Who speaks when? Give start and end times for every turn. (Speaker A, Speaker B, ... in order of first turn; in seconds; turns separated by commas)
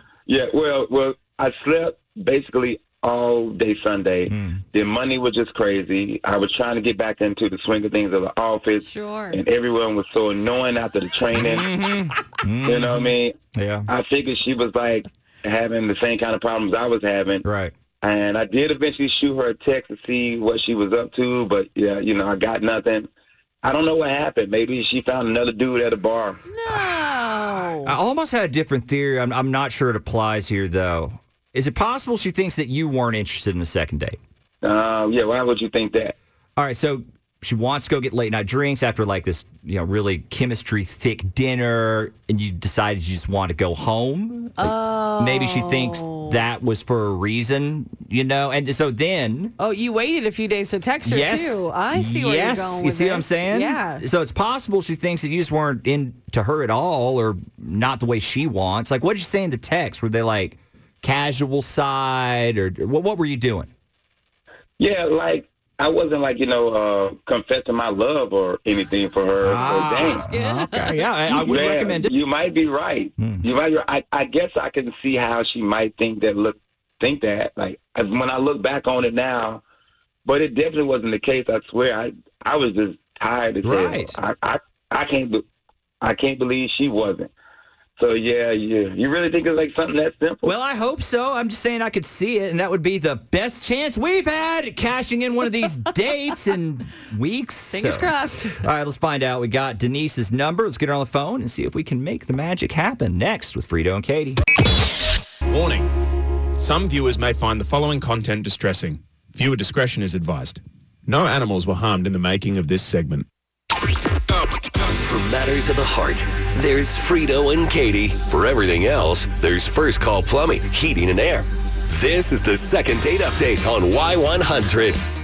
Speaker A: 0.3-11.7, Speaker B: 4.3-4.6, Speaker C: 8.8-9.4, Speaker B: 11.3-13.9, Speaker A: 12.6-13.4, Speaker A: 13.9-17.4, Speaker B: 17.4-17.7, Speaker A: 18.0-23.1, Speaker A: 23.6-26.4, Speaker C: 26.5-27.9, Speaker B: 26.7-27.0, Speaker B: 27.8-34.2, Speaker A: 34.6-36.1, Speaker B: 36.6-49.6, Speaker C: 44.6-46.5, Speaker C: 49.6-54.0, Speaker B: 51.0-63.7, Speaker A: 64.8-70.3, Speaker B: 69.4-72.1, Speaker C: 69.6-71.4, Speaker A: 71.3-79.6, Speaker B: 73.2-73.5, Speaker A: 80.2-85.5, Speaker B: 83.6-84.2, Speaker A: 86.0-87.3, Speaker A: 88.0-90.5, Speaker B: 90.4-104.4, Speaker C: 97.7-98.6, Speaker D: 105.5-105.9, Speaker D: 106.6-113.3, Speaker E: 114.7-125.0